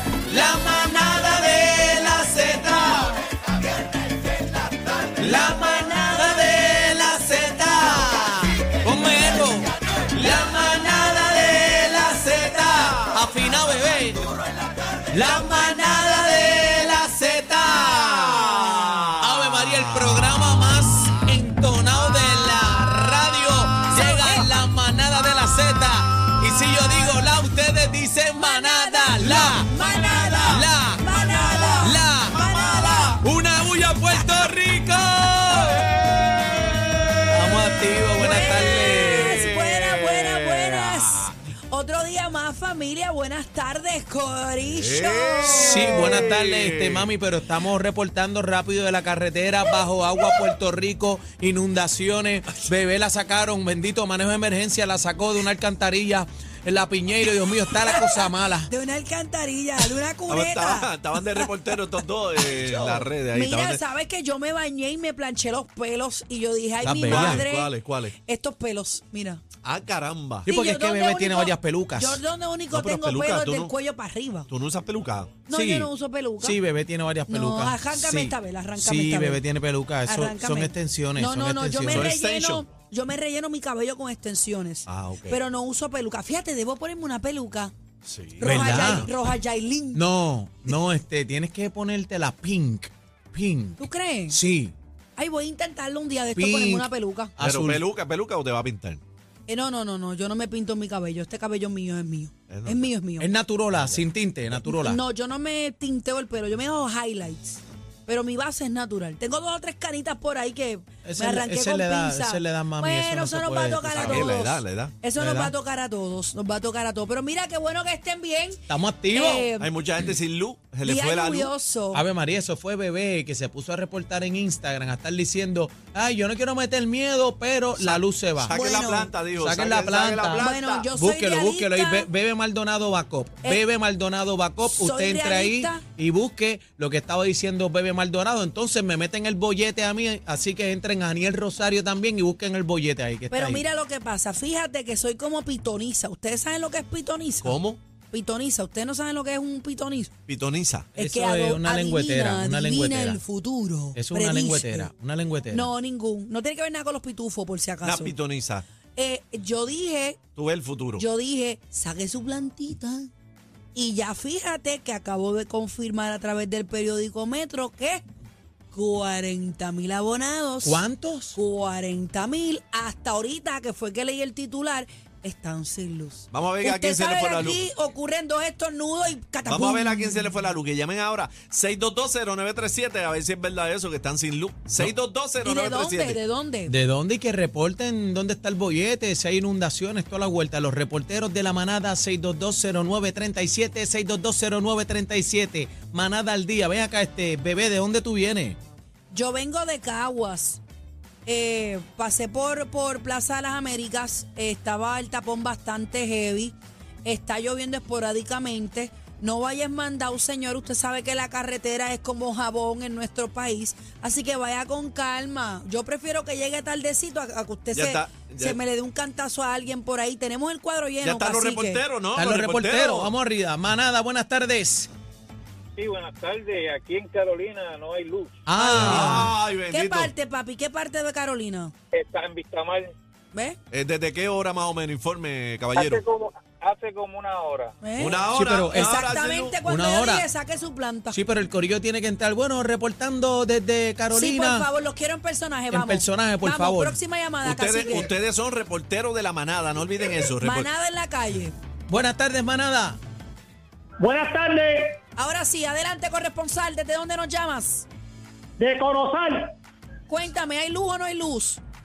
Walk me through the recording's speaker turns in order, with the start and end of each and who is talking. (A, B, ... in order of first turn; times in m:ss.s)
0:00.3-0:03.2 A
0:05.2-0:14.2 A
0:15.1-0:18.6 A
0:19.2-0:29.7 A
0:23.9-0:24.5 B
0:28.4-0:33.2 B
0:29.7-0:33.2 C
0:30.4-0:31.1 A
0:31.8-0:32.4 A
0:33.2-0:35.9 A
0:35.4-0:37.7 C
0:37.3-0:39.4 A
0:38.2-0:46.3 B
0:38.3-0:41.3 C
0:44.6-0:47.1 C
0:45.4-0:58.7 A
0:57.8-1:01.5 B
1:00.3-1:03.8 C
1:02.4-1:09.4 B
1:06.8-1:07.4 A
1:07.0-1:08.1 C
1:09.6-1:10.5 C
1:10.4-1:12.2 A
1:10.4-1:14.5 B
1:12.7-1:13.7 C
1:14.5-1:15.4 C
1:15.5-1:16.6 B
1:15.5-1:22.1 A
1:17.3-1:19.4 B
1:20.0-1:27.7 B
1:21.9-1:22.7 C
1:24.9-1:25.4 C
1:28.0-1:29.1 C
1:28.4-1:30.0 B
1:28.4-1:29.1 A
1:29.9-1:34.7 A
1:33.8-1:34.4 B
1:35.2-1:37.3 B
1:36.4-1:37.8 A
1:37.4-1:39.0 C
1:39.5-1:43.3 B
1:42.5-1:42.9 C
1:43.2-1:45.0 A
1:43.7-1:44.0 C
1:44.6-1:59.7 B
1:51.0-1:54.3 A
1:53.9-1:54.9 C
1:55.2-1:55.5 A
1:58.7-1:59.5 A
1:59.6-2:01.5 C
2:00.8-2:02.0 B
2:01.9-2:08.5 A
2:07.8-2:10.9 C
2:08.5-2:09.1 B
2:09.4-2:23.6 A
2:10.4-2:12.1 B
2:14.7-2:15.8 B
2:23.3-2:27.6 B
2:27.4-2:27.8 C
2:28.1-2:30.1 B
2:30.3-2:30.9 C
2:31.0-2:33.2 A
2:31.0-2:34.9 B
2:33.9-2:35.7 A
2:35.5-2:38.1 B
2:37.8-2:38.6 C
2:39.0-2:40.2 B
2:40.4-2:41.0 C
2:41.0-2:43.1 B
2:43.7-2:48.0 B
2:48.7-2:50.8 B
2:50.6-2:51.4 A
2:51.3-3:00.3 B
2:56.3-2:57.6 C
2:59.4-3:06.2 C
3:05.4-3:06.7 B
3:06.7-3:18.6 A
3:19.1-3:20.6 B
3:21.2-3:41.8 B
3:37.7-3:38.6 C
3:41.0-3:43.1 C
3:42.1-3:44.9 A
3:45.8-3:48.4 D
3:48.4-3:49.3 A
3:48.5-3:51.7 B
3:48.7-3:50.1 C
3:51.9-3:52.9 D
3:53.7-3:56.0 C
3:55.7-3:57.9 D
3:57.8-4:01.2 B
3:58.0-3:59.5 C
3:58.2-3:59.1 A
3:59.6-4:00.3 A
4:01.1-4:04.7 A
4:04.1-4:08.1 B
4:05.7-4:07.0 A
4:07.4-4:10.7 C
4:10.4-4:11.5 B
4:11.9-4:13.0 A
4:14.0-4:15.0 E
4:15.2-4:17.9 B
4:18.6-4:19.5 E
4:20.1-4:21.6 B